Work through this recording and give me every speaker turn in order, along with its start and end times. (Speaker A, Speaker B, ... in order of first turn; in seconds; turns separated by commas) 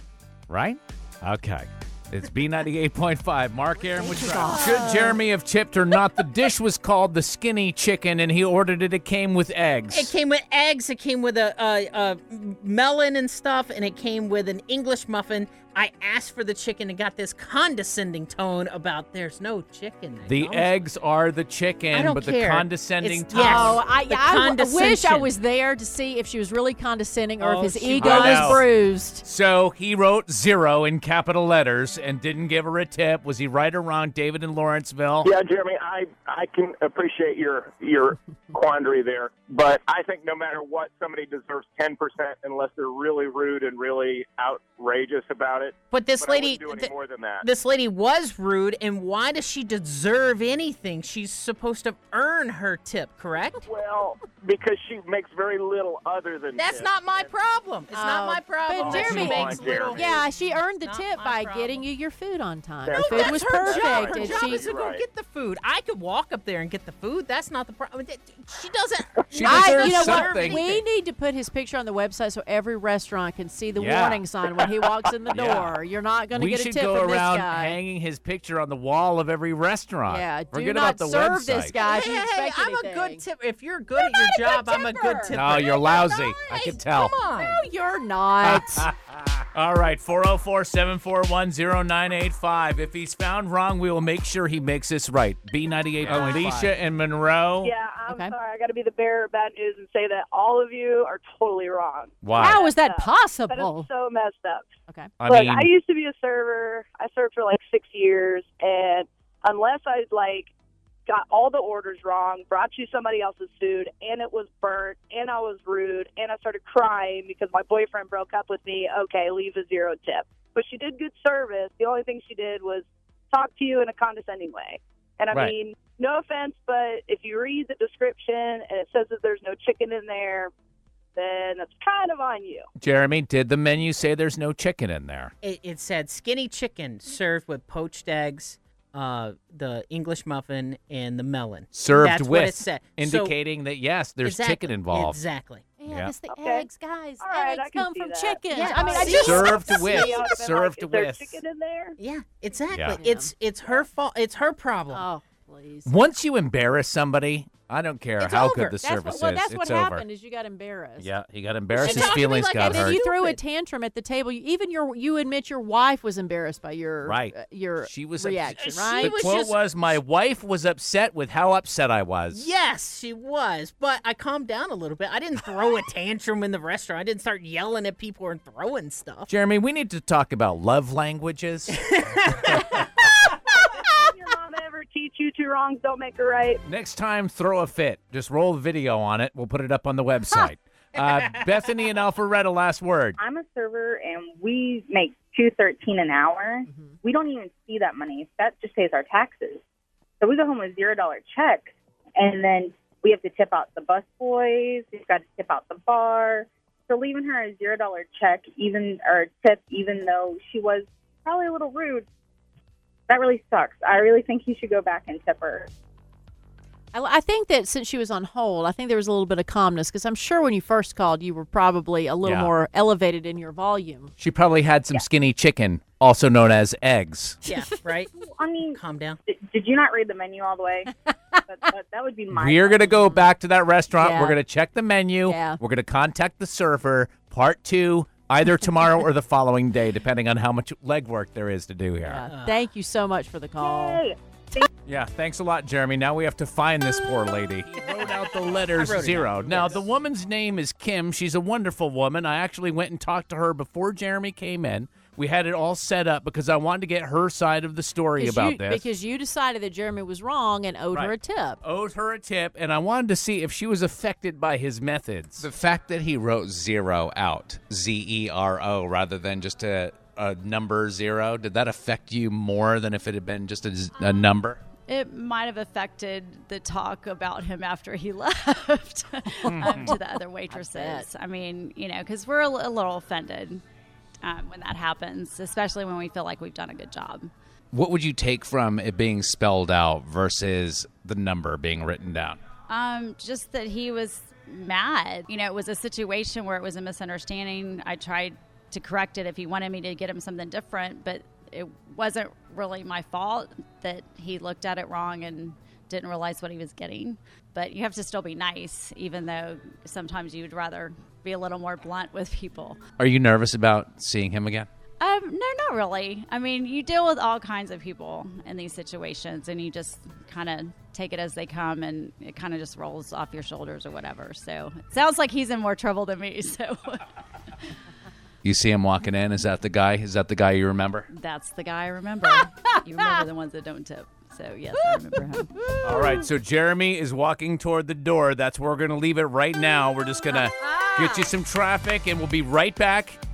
Speaker A: 0.5-10.1, Speaker B: 4.0-5.1, Speaker C: 4.2-5.1, Speaker B: 9.9-20.8, Speaker A: 20.3-23.7, Speaker B: 21.9-25.3, Speaker C: 23.3-29.2, Speaker A: 27.4-28.6, Speaker B: 28.0-28.6, Speaker A: 29.2-35.3, Speaker D: 35.2-47.5, Speaker B: 45.9-53.7, Speaker D: 53.6-56.9, Speaker B: 56.6-61.9, Speaker C: 57.9-64.7, Speaker D: 58.7-60.1, Speaker D: 62.9-65.0, Speaker B: 62.9-70.8, Speaker A: 69.3-70.6, Speaker C: 69.5-77.8, Speaker A: 73.8-74.2, Speaker A: 75.3-75.8, Speaker A: 76.3-81.8, Speaker C: 80.1-83.2, Speaker B: 81.8-87.6, Speaker C: 84.0-85.4, Speaker A: 85.3-87.1, Speaker C: 87.2-88.9, Speaker A: 88.5-97.7, Speaker C: 96.2-96.7, Speaker E: 97.6-104.7, Speaker C: 98.1-98.3, Speaker A: 102.2-102.6, Speaker C: 102.3-103.9, Speaker C: 104.9-105.2, Speaker A: 105.2-105.7, Speaker E: 105.2-110.5, Speaker E: 111.1-130.5, Speaker E: 131.2-132.7, Speaker A: 132.8-135.3, Speaker B: 135.4-143.3, Speaker A: 141.7-145.2, Speaker B: 144.2-145.7, Speaker C: 145.8-149.6, Speaker A: 145.9-146.1, Speaker E: 146.3-146.7, Speaker E: 147.2-152.0, Speaker B: 148.5-150.2, Speaker A: 149.1-151.4, Speaker B: 152.0-155.1, Speaker A: 152.7-153.0, Speaker C: 153.0-153.3, Speaker C: 154.9-155.9, Speaker A: 155.9-160.0, Speaker C: 158.2-161.1, Speaker A: 161.0-163.0, Speaker B: 161.7-163.4, Speaker C: 161.8-169.2, Speaker A: 167.1-172.4, Speaker B: 168.6-169.9, Speaker B: 172.3-179.3, Speaker A: 179.3-181.8, Speaker B: 181.9-183.3, Speaker E: 183.8-186.6, Speaker A: 186.7-193.2, Speaker F: 193.2-199.6, Speaker C: 196.7-197.0, Speaker F: 200.2-212.1, Speaker F: 213.1-215.7, Speaker C: 216.9-224.1, Speaker A: 222.2-222.5, Speaker A: 224.2-227.4, Speaker B: 227.4-228.1, Speaker F: 228.2-230.9, Speaker B: 228.7-229.2, Speaker F: 231.5-233.0, Speaker A: 232.3-242.3, Speaker C: 233.0-233.3, Speaker C: 234.0-234.4, Speaker C: 235.3-235.6, Speaker C: 242.0-244.0, Speaker B: 242.3-242.6, Speaker F: 243.6-244.7, Speaker A: 244.9-258.9, Speaker B: 248.7-249.8, Speaker C: 258.2-261.6, Speaker A: 260.9-274.6, Speaker G: 274.9-283.6, Speaker A: 279.5-279.9, Speaker C: 279.5-281.1, Speaker G: 284.2-287.3, Speaker A: 287.7-292.4, Speaker G: 292.7-312.8, Speaker A: 313.0-314.7, Speaker G: 315.0-327.1, Speaker A: 328.4-331.1, Speaker G: 331.1-335.7, Speaker A: 335.8-343.2